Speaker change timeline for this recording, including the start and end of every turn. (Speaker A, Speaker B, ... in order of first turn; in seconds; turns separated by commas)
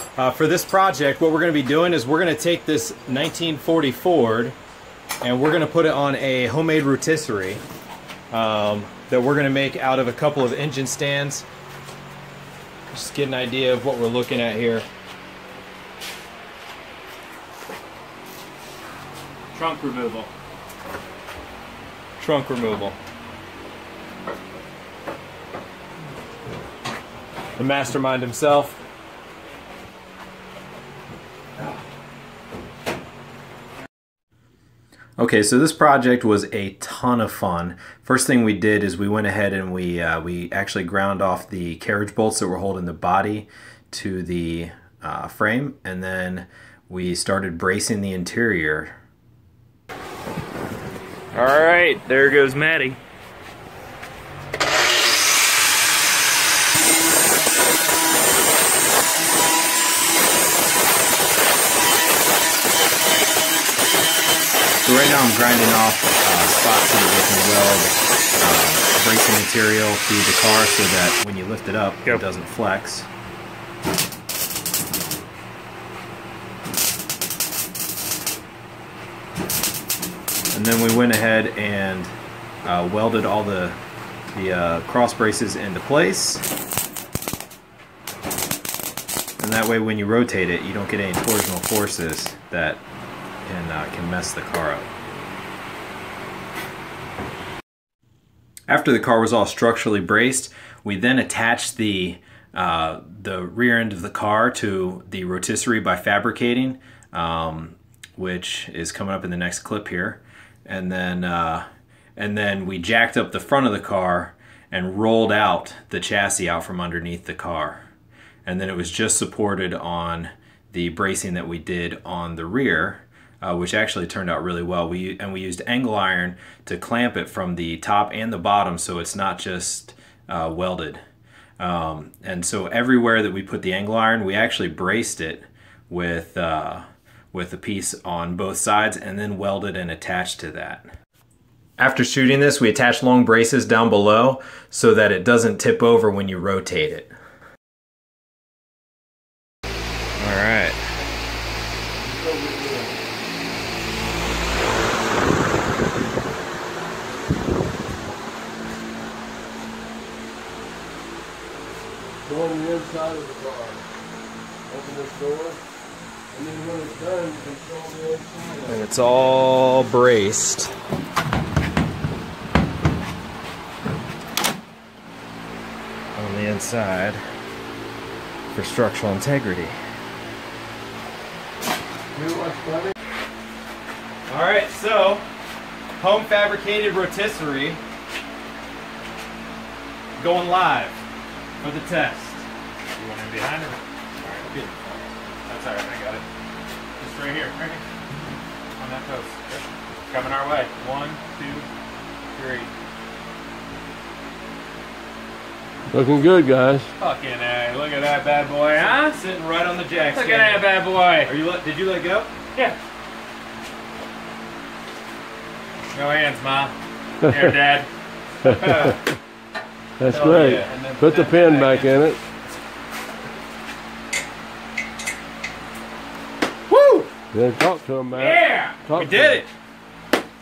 Speaker A: 0.2-4.5, Speaker A: 5.2-7.6, Speaker A: 8.3-11.4, Speaker A: 12.9-14.9, Speaker B: 19.5-20.3, Speaker A: 22.2-23.0, Speaker A: 27.6-28.8, Speaker A: 35.2-49.0, Speaker B: 51.3-53.0, Speaker A: 64.8-73.1, Speaker A: 80.5-82.1, Speaker A: 82.6-83.8, Speaker A: 84.3-86.5, Speaker A: 89.4-92.8, Speaker A: 93.4-94.9, Speaker A: 98.7-111.7, Speaker A: 112.2-117.9, Speaker A: 118.4-131.0, Speaker A: 131.6-140.9, Speaker A: 141.8-147.1, Speaker A: 150.2-150.8, Speaker C: 152.0-153.0, Speaker C: 162.2-163.8, Speaker C: 164.7-165.6, Speaker C: 166.3-168.8, Speaker A: 168.7-170.7, Speaker A: 176.2-177.2, Speaker A: 178.5-179.8, Speaker C: 182.2-182.9, Speaker A: 184.3-185.2, Speaker A: 186.0-187.8, Speaker A: 190.2-191.0, Speaker A: 191.6-192.4, Speaker B: 193.0-194.5, Speaker A: 194.4-194.9, Speaker B: 195.5-196.2, Speaker B: 197.0-197.8, Speaker B: 198.8-201.7, Speaker B: 202.3-202.7, Speaker C: 205.9-206.9, Speaker B: 207.0-209.2, Speaker A: 209.0-210.7, Speaker B: 210.1-211.3, Speaker A: 211.2-212.3, Speaker B: 215.9-217.9, Speaker B: 218.4-219.0, Speaker C: 220.0-222.2, Speaker B: 220.0-221.9, Speaker A: 220.4-220.7, Speaker C: 227.3-229.4, Speaker B: 228.1-229.5